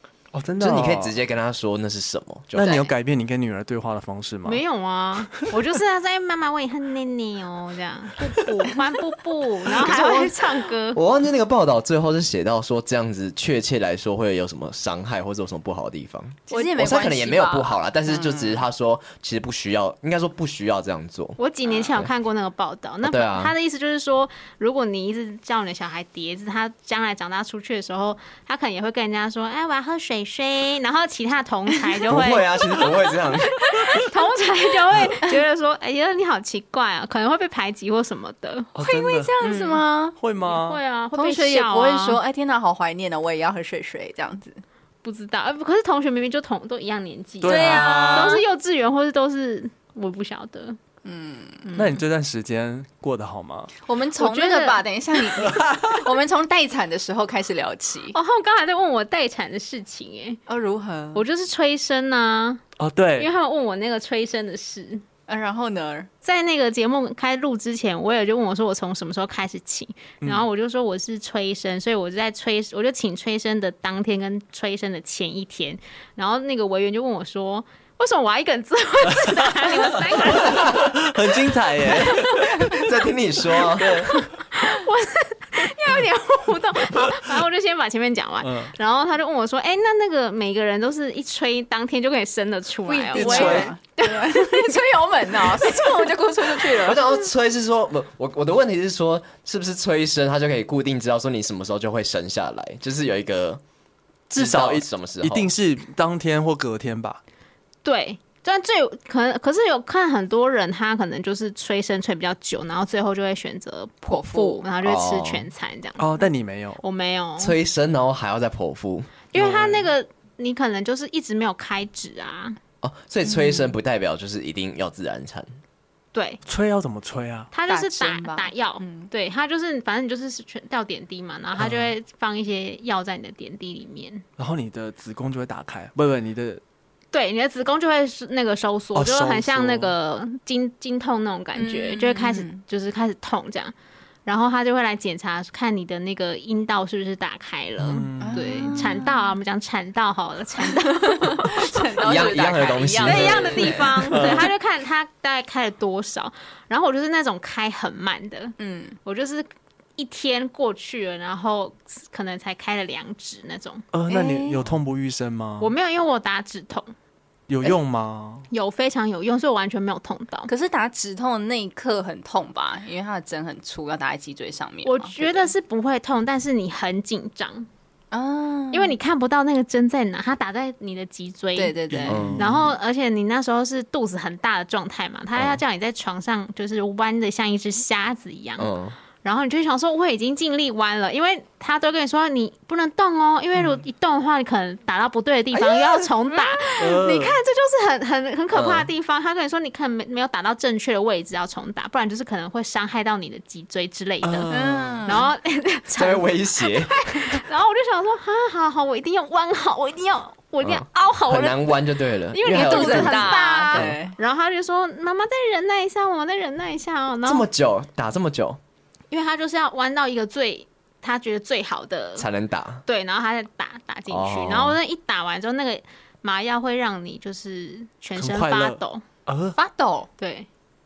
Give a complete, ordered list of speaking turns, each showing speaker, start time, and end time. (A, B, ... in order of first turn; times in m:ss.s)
0:00.3-0:01.2 A
0:00.6-0:02.9 B
0:02.5-0:04.6 A
0:04.4-0:11.0 C
0:09.6-0:21.4 B
0:16.5-0:18.6 D
0:21.4-0:33.0 C
0:23.0-0:23.5 B
0:32.1-0:33.7 B
0:33.6-0:34.8 D
0:33.7-0:38.8 C
0:38.7-0:39.3 A
0:38.8-0:40.2 D
0:39.4-0:39.8 C
0:40.2-0:40.8 A
0:40.4-0:42.2 C
0:41.1-0:44.6 D
0:45.0-0:50.8 C
0:47.4-0:48.4 A
0:47.4-0:48.4 D
0:51.0-0:51.7 D
0:51.6-0:52.0 C
0:51.7-0:53.7 A
0:53.8-0:58.2 D
0:54.2-0:54.8 C
0:58.1-1:00.4 C
1:00.5-1:01.2 D
1:01.2-1:02.6 C
1:02.8-1:03.3 A
1:03.2-1:05.0 C
1:05.3-1:06.1 D
1:06.2-1:21.0 C
1:19.1-1:22.8 A
1:21.8-1:22.8 C
1:22.7-1:24.1 B
1:23.8-1:24.3 A
1:23.8-1:34.8 C
1:28.4-1:28.7 A
1:32.9-1:37.0 D
1:33.2-1:33.7 A
1:35.5-1:36.6 C
1:36.8-1:43.6 B
1:44.3-1:47.2 A
1:44.4-1:45.5 B
1:47.8-1:56.3 C
1:54.1-1:54.6 D
1:54.8-1:55.5 B
1:56.0-1:56.8 A
1:56.8-1:57.6 C
1:57.4-1:59.8 B
1:59.3-2:02.6 C
2:02.8-2:05.6 B
2:06.1-2:06.4 C
2:06.4-2:07.5 A
2:07.5-2:14.2 C
2:07.7-2:09.1 D
2:11.6-2:11.9 A
2:14.4-2:16.6 A
2:17.1-2:23.7 C
2:18.9-2:19.9 A
2:21.6-2:22.6 D
2:24.2-2:31.9 C
2:27.8-2:29.0 A
2:28.2-2:29.3 D
2:30.7-2:34.4 D
2:32.0-2:34.1 B
2:33.0-2:43.8 C
2:34.1-2:34.5 A
2:38.6-2:39.0 D
2:43.9-2:45.7 A
2:44.1-2:44.7 D
2:45.6-2:46.9 C
2:47.5-2:48.5 A
2:48.5-2:50.5 C
2:50.5-2:55.5 D
2:54.8-2:57.7 C
2:58.1-2:59.0 D
2:58.7-3:24.5 C
3:01.6-3:02.3 D
3:02.0-3:02.7 A
3:02.1-3:02.6 B
3:05.4-3:05.6 B
3:08.6-3:09.0 B
3:16.3-3:16.8 D
3:16.8-3:17.4 A
3:18.5-3:18.9 B
3:24.2-3:25.0 A
3:24.5-3:25.3 D
3:25.0-3:37.5 C
3:26.0-3:27.4 B
3:30.6-3:34.0 B
3:32.4-3:34.2 D
3:37.2-3:38.6 B
3:39.1-3:42.3 C
3:42.2-3:42.8 B
3:42.9-3:49.0 C
3:44.1-3:44.8 B
3:48.2-3:49.6 A
3:49.5-3:50.1 D
3:50.2-3:50.5 C